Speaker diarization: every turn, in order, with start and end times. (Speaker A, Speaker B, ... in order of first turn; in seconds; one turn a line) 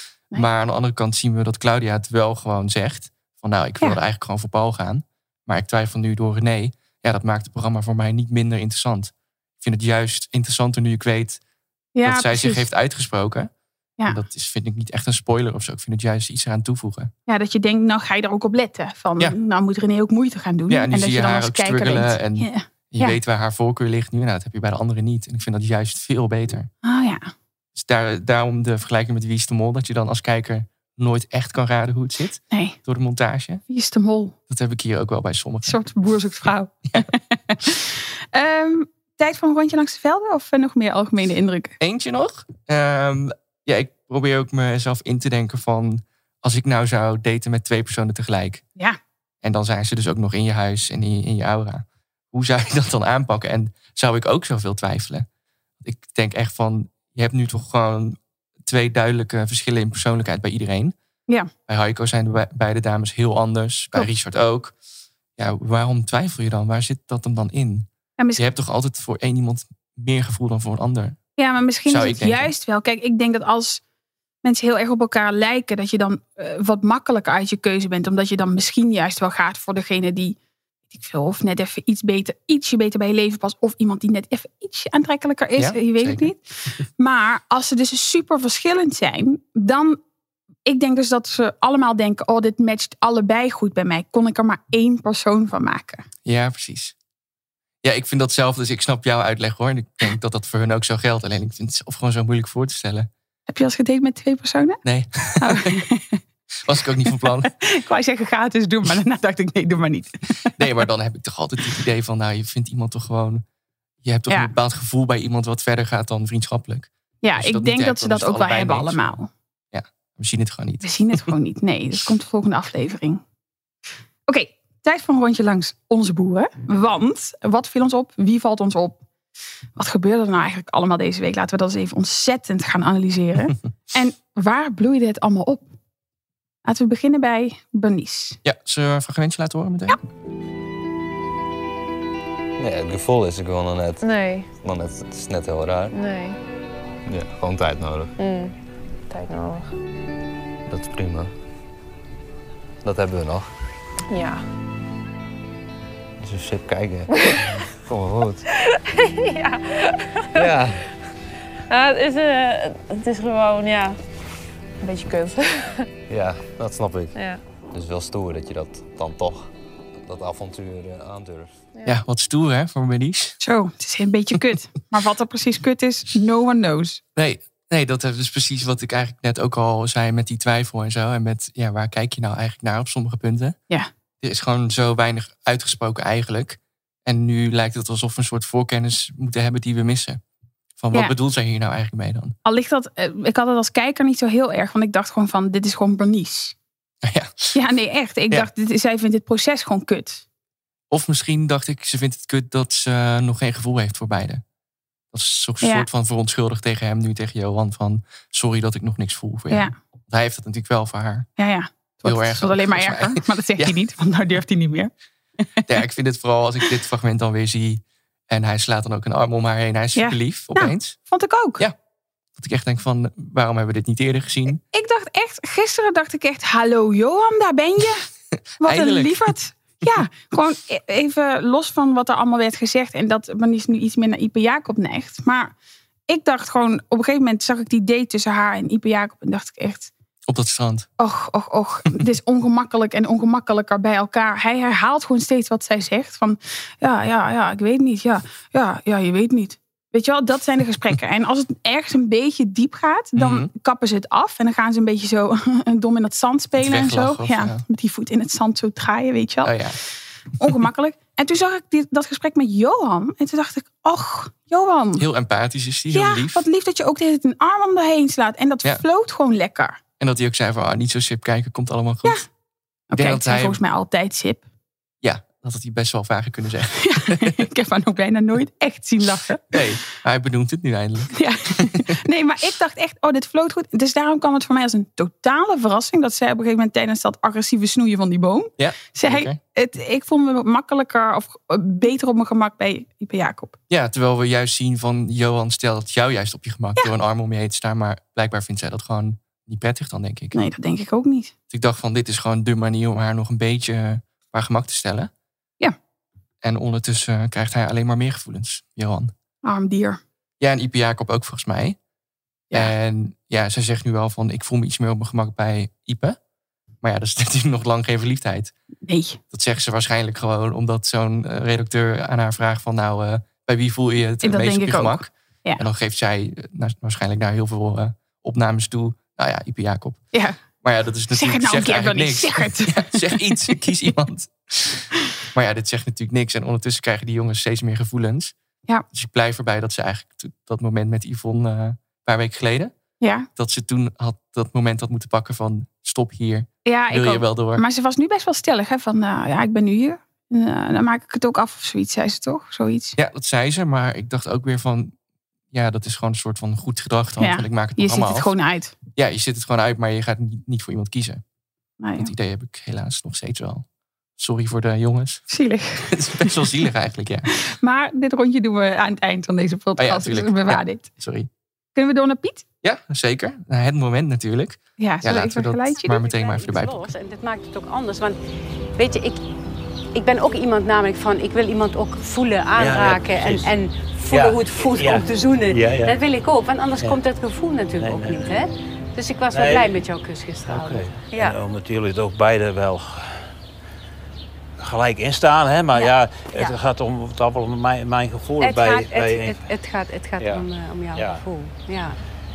Speaker A: 0.3-11.4
Speaker B: 11.9-12.7
Speaker A: 12.0-13.5
Speaker A: 14.1-17.1
Speaker B: 17.3-23.2
Speaker A: 20.7-26.7
Speaker B: 26.8-27.3
Speaker A: 27.8-33.6
Speaker B: 32.5-32.8
Speaker B: 33.7-34.4
Speaker A: 34.5-35.8
Speaker B: 35.6-41.8
Speaker A: 41.8-48.6
Speaker A: 49.4-55.3
Speaker A: 55.8-60.9
Speaker A: 61.7-64.8
Speaker A: 65.4-71.2
Speaker B: 71.4-73.8
Speaker A: 71.9-72.5
Speaker B: 74.4-80.4
Speaker B: 80.9-90.0
Speaker A: 85.6-86.3
Speaker B: 90.7-96.1
Speaker A: 96.2-96.9
Speaker A: 97.8-103.1
Speaker B: 103.5-104.8
Speaker A: 104.8-105.8
Speaker B: 105.4-106.2
Speaker A: 106.6-107.5
Speaker B: 107.1-110.6
Speaker A: 110.6-113.4
Speaker A: 114.0-119.1
Speaker B: 117.2-119.3
Speaker A: 119.7-121.3
Speaker B: 120.8-123.2
Speaker B: 124.3-129.0
Speaker B: 129.8-135.6
Speaker B: 136.6-138.4
Speaker A: 138.4-140.0
Speaker C: 142.6-144.1
Speaker D: 144.0-144.5
Speaker C: 144.6-145.9
Speaker D: 145.9-146.4
Speaker C: 147.1-148.1
Speaker D: 148.2-148.5
Speaker D: 149.1-149.7
Speaker C: 150.7-151.3
Speaker C: 152.8-153.5
Speaker D: 154.1-154.4
Speaker C: 156.2-158.4
Speaker D: 158.7-160.2
Speaker C: 160.4-160.8
Speaker D: 161.7-164.0
Speaker D: 164.8-165.7
Speaker C: 166.1-167.2
Speaker D: 167.1-167.4
Speaker C: 167.7-169.5
Speaker C: 170.1-171.6
Speaker A: 171.8-173.4
Speaker B: 173.4-177.0
Speaker A: 177.2-183.6
Speaker A: 184.2-190.2
Speaker A: 190.8-192.4
Speaker B: 192.4-196.6
Speaker A: 197.0-197.6
Speaker B: 197.5-200.2
Speaker A: 200.9-204.4
Speaker A: 205.1-211.3
Speaker B: 205.6-205.9
Speaker B: 209.5-209.8
Speaker B: 211.4-214.9
Speaker A: 212.0-213.8
Speaker A: 215.7-221.0
Speaker B: 219.9-221.6
Speaker A: 222.4-224.6
Speaker B: 224.6-228.1
Speaker B: 228.6-235.5
Speaker A: 228.6-229.3
Speaker B: 236.1-239.9
Speaker A: 240.3-240.9
Speaker B: 241.0-259.6
Speaker A: 253.2-253.5
Speaker A: 256.6-257.6
Speaker A: 259.4-259.8
Speaker B: 260.4-265.1
Speaker A: 265.0-266.4
Speaker B: 265.9-269.8
Speaker A: 270.0-272.2
Speaker B: 272.9-274.4
Speaker A: 272.9-273.6
Speaker A: 275.0-277.4
Speaker B: 276.8-279.6
Speaker A: 279.5-281.9
Speaker B: 281.1-293.6
Speaker A: 288.6-289.4
Speaker A: 293.7-300.4
Speaker B: 300.3-301.3
Speaker A: 301.5-305.1
Speaker A: 306.4-309.1
Speaker B: 309.4-310.0
Speaker A: 310.4-311.8
Speaker A: 312.5-316.2
Speaker A: 316.8-318.5
Speaker B: 318.9-319.2
Speaker A: 319.3-330.0
Speaker B: 324.2-325.6
Speaker A: 330.6-338.3
Speaker B: 331.1-333.6
Speaker A: 338.9-342.7
Speaker B: 343.0-343.3
Speaker A: 343.4-347.6
Speaker B: 346.7-352.9
Speaker A: 352.9-354.9
Speaker A: 355.5-358.3
Speaker B: 357.2-358.7
Speaker A: 358.9-361.2
Speaker B: 361.8-362.1
Speaker A: 362.0-363.6
Speaker A: 364.2-365.2
Speaker B: 365.3-366.4
Speaker A: 365.9-367.3
Speaker B: 367.3-370.9
Speaker A: 369.8-371.3
Speaker B: 371.7-372.4
Speaker A: 372.6-376.9
Speaker B: 374.8-376.0
Speaker E: 375.8-378.2
Speaker E: 378.8-379.2
Speaker E: 379.9-391.4
Speaker F: 382.6-383.5
Speaker F: 384.1-386.0
Speaker F: 387.8-388.3
Speaker F: 389.3-389.8
Speaker F: 390.4-393.3
Speaker F: 394.6-399.4
Speaker E: 395.7-396.5
Speaker E: 398.4-402.0
Speaker F: 400.2-401.2